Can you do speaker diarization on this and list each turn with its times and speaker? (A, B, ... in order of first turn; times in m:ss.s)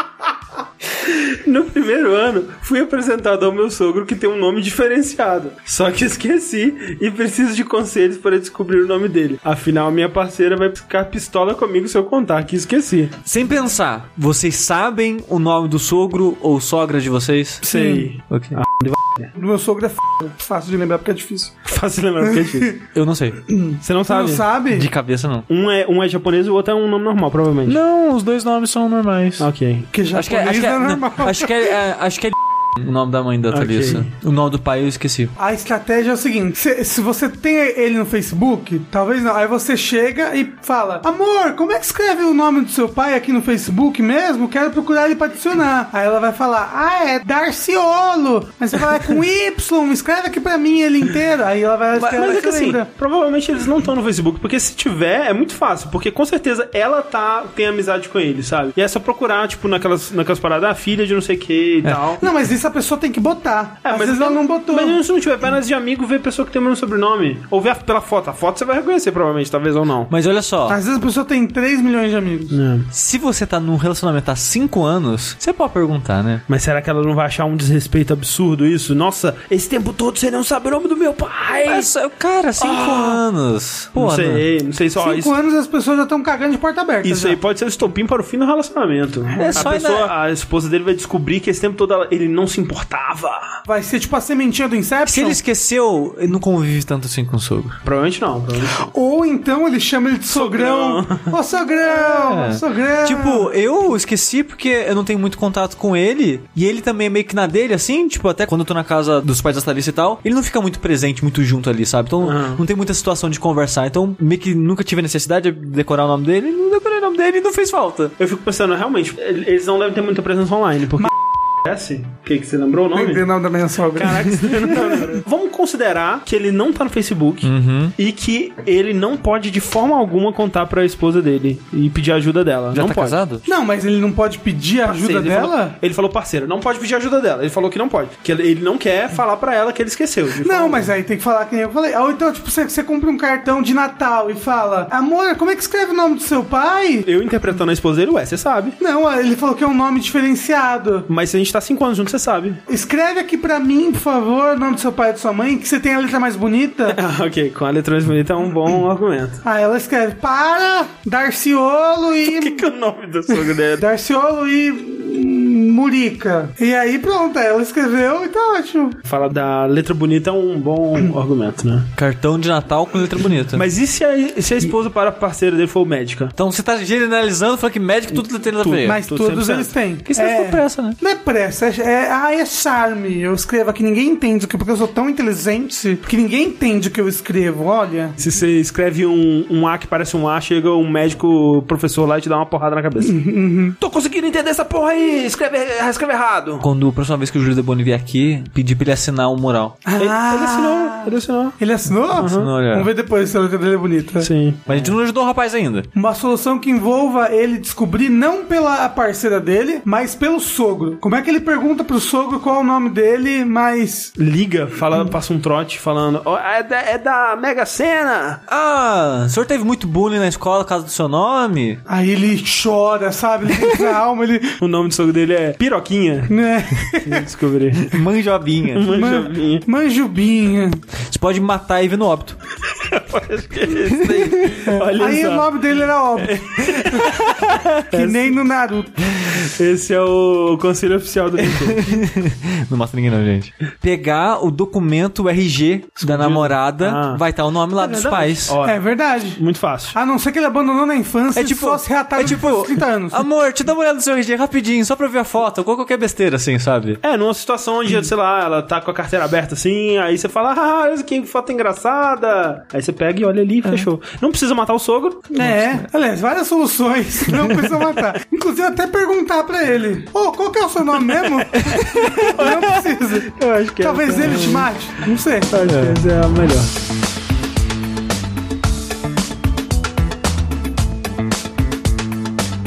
0:01.0-0:13.1 A
0:13.2-0:17.7 B
0:17.6-0:19.3 A
0:17.7-0:18.1 C
0:18.3-0:18.6 B
0:19.4-0:21.6 C
0:21.7-0:22.8 A
0:22.2-0:22.8 C
0:22.9-0:23.4 B
0:23.5-0:24.9 C
0:23.8-0:24.5 A
0:24.7-0:25.5 B
0:25.5-0:27.8 A
0:27.7-0:29.5 B
0:29.4-0:29.9 A
0:29.9-0:31.8 C
0:30.1-0:35.3 B
0:33.5-0:34.1 A
0:35.4-0:52.9 C
0:52.0-0:52.2 B
0:52.1-1:02.2 A
1:02.2-1:05.0 C
1:03.8-1:10.1 A
1:10.1-1:10.8 B
1:10.7-1:12.6 C
1:12.5-1:12.9 A
1:12.9-1:16.4 B
1:16.5-1:21.9 A
1:21.6-1:24.4 B
1:22.6-1:23.2 A
1:23.9-1:25.3 A
1:25.0-1:27.4 C
1:27.0-1:33.6 A
1:29.4-1:29.6 C
1:29.4-1:30.1 B
1:33.7-1:35.4 C
1:35.1-1:37.8 B
1:37.8-1:38.8 A
1:38.8-1:43.5 C
1:40.3-1:41.4 A
1:42.2-1:58.1 B
1:52.2-1:52.6 A
1:58.2-2:01.1 A
2:01.6-2:03.2 A
2:02.9-2:05.2 C
2:03.9-2:13.2 A
2:07.4-2:07.9 B
2:12.7-2:13.4 B
2:13.4-2:15.8 C
2:14.9-2:20.9 A
2:20.4-2:27.1 C
2:27.1-2:28.8 A
2:28.8-2:31.1 C
2:31.1-2:32.6 A
2:32.7-2:37.0 C
2:36.9-2:39.4 A
2:39.4-2:42.7 C
2:42.2-2:43.8 A
2:43.3-2:49.0 C
2:49.0-2:51.9 A
2:52.0-2:53.6 B
2:53.5-2:56.4 A
2:56.4-2:59.0 B
2:58.6-2:59.7 A
2:58.8-3:08.2 C
3:00.1-3:01.0 B
3:08.2-3:13.2 A
3:13.0-3:13.8 C
3:13.8-3:16.7 A
3:16.6-3:19.8 B
3:19.8-3:24.3 C
3:20.0-3:21.6 A
3:22.1-3:22.5 A
3:22.2-3:22.9 B
3:24.2-3:25.0 A
3:24.7-3:25.9 B
3:25.9-3:34.2 C
3:34.2-3:38.4 A
3:38.5-3:41.8 B
3:41.9-3:44.6 C
3:44.6-3:46.4 A
3:46.3-3:47.3 C
3:46.9-3:48.0 A
3:47.8-3:48.9 B
3:48.7-3:49.7 A
3:48.9-3:50.8 C
3:51.0-3:52.4 B
3:52.7-3:55.7 A
3:53.9-3:54.7 B
3:55.0-3:57.1 C
3:56.2-3:58.4 A
3:57.2-3:57.6 B
3:57.9-3:59.1 C
3:59.1-4:01.9 A
4:01.4-4:08.6 B
4:06.0-4:07.2 A
4:07.8-4:08.8 A
4:08.6-4:09.4 C
4:09.4-4:10.0 A
4:09.9-4:13.3 C
4:11.4-4:17.0 B
4:17.0-4:25.3 A
4:25.3-4:35.5 C
4:25.4-4:25.8 B
4:31.6-4:36.7 A
4:35.6-4:36.0 B